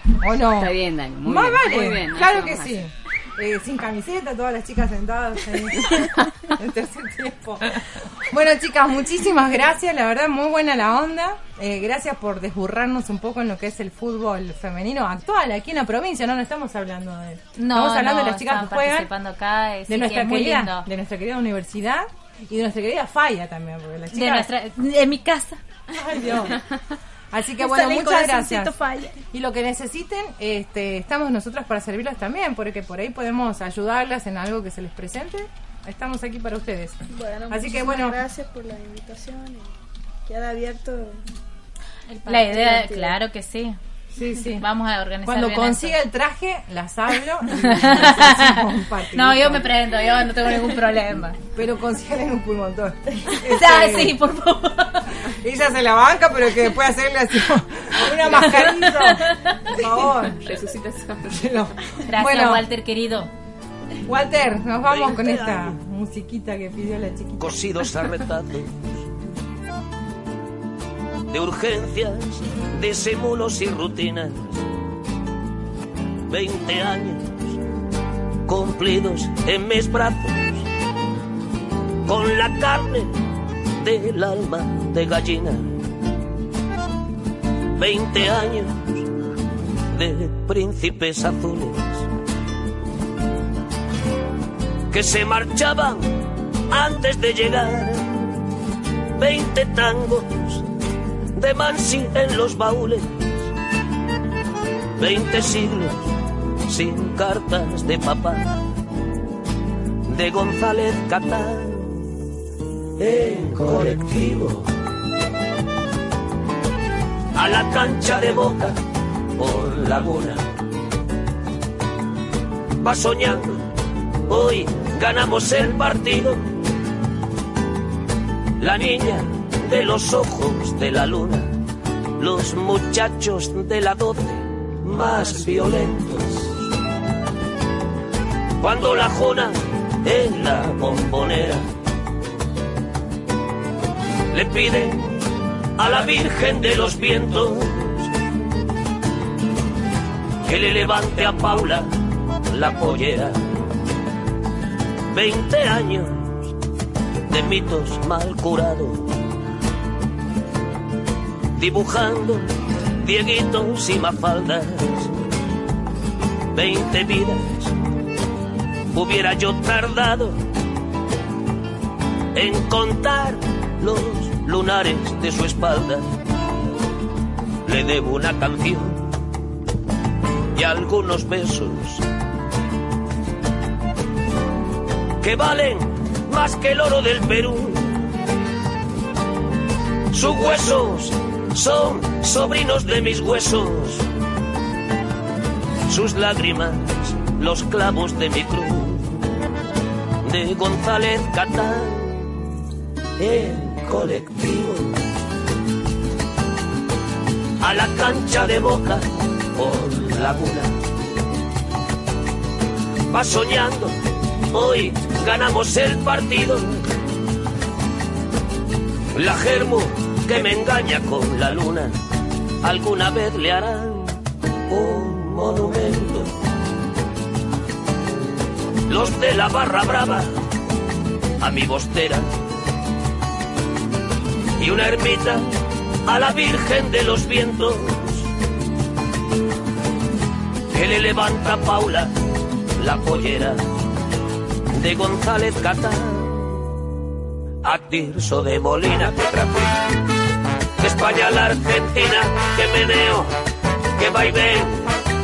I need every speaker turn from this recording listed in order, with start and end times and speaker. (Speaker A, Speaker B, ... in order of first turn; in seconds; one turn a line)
Speaker A: 0.2-19.1
Speaker B: 0.6-2.8
Speaker C: 17.6-20.9
Speaker A: 19.9-24.5
Speaker C: 24.1-25.6
Speaker A: 25.9-26.6
Speaker A: 27.3-28.8
Speaker A: 29.3-37.0
Speaker D: 37.1-39.7
Speaker A: 37.5-38.2
Speaker D: 40.3-41.2
Speaker C: 42.2-43.8
Speaker D: 42.3-43.2
Speaker A: 44.1-44.6
Speaker C: 44.6-46.0
Speaker A: 45.2-49.7
Speaker C: 47.5-48.6
Speaker C: 49.1-51.4
Speaker A: 51.5-54.2
Speaker C: 53.5-55.1
Speaker A: 55.3-60.4
Speaker C: 58.3-59.6
Speaker B: 59.7-61.6
Speaker A: 61.3-62.6
Speaker C: 62.1-63.3
Speaker A: 64.0-67.8
Speaker E: 64.9-65.2
Speaker E: 67.4-68.9
Speaker E: 71.3-74.6
Speaker E: 76.3-77.6
Speaker E: 78.5-80.6
Speaker E: 82.1-83.2
Speaker E: 83.8-85.7
Speaker E: 87.8-89.0
Speaker E: 89.9-92.1
Speaker E: 94.9-96.2
Speaker E: 96.7-98.2
Speaker E: 99.2-100.7
Speaker E: 101.3-103.2
Speaker E: 105.0-106.0
Speaker E: 106.7-108.5
Speaker E: 110.1-112.1
Speaker E: 113.0-114.7
Speaker E: 117.3-118.8
Speaker E: 119.4-120.4
Speaker E: 122.8-123.6
Speaker E: 124.3-126.5
Speaker E: 128.6-131.5
Speaker E: 132.2-136.4
Speaker E: 138.6-141.7
Speaker E: 144.3-145.2
Speaker E: 145.8-148.0
Speaker E: 150.4-151.9
Speaker E: 152.5-153.4
Speaker E: 155.1-156.3
Speaker E: 157.3-159.1
Speaker E: 161.6-162.5
Speaker E: 163.0-165.1
Speaker E: 166.5-167.7
Speaker E: 168.9-170.4
Speaker E: 172.3-176.1
Speaker E: 177.7-179.0
Speaker E: 180.6-182.0
Speaker E: 185.2-188.0
Speaker E: 190.1-194.1
Speaker E: 195.9-199.1
Speaker E: 200.2-202.2
Speaker E: 203.2-204.9
Speaker E: 207.6-210.7
Speaker E: 213.1-213.9
Speaker E: 214.5-216.8
Speaker E: 219.2-221.9
Speaker E: 222.6-224.2
Speaker E: 224.7-226.3
Speaker E: 228.9-230.3
Speaker E: 231.4-232.3
Speaker E: 234.6-235.5
Speaker E: 236.1-238.2
Speaker E: 240.7-242.1
Speaker E: 242.8-243.6
Speaker E: 244.7-246.4
Speaker E: 247.6-249.7
Speaker E: 250.8-253.3
Speaker E: 254.0-254.9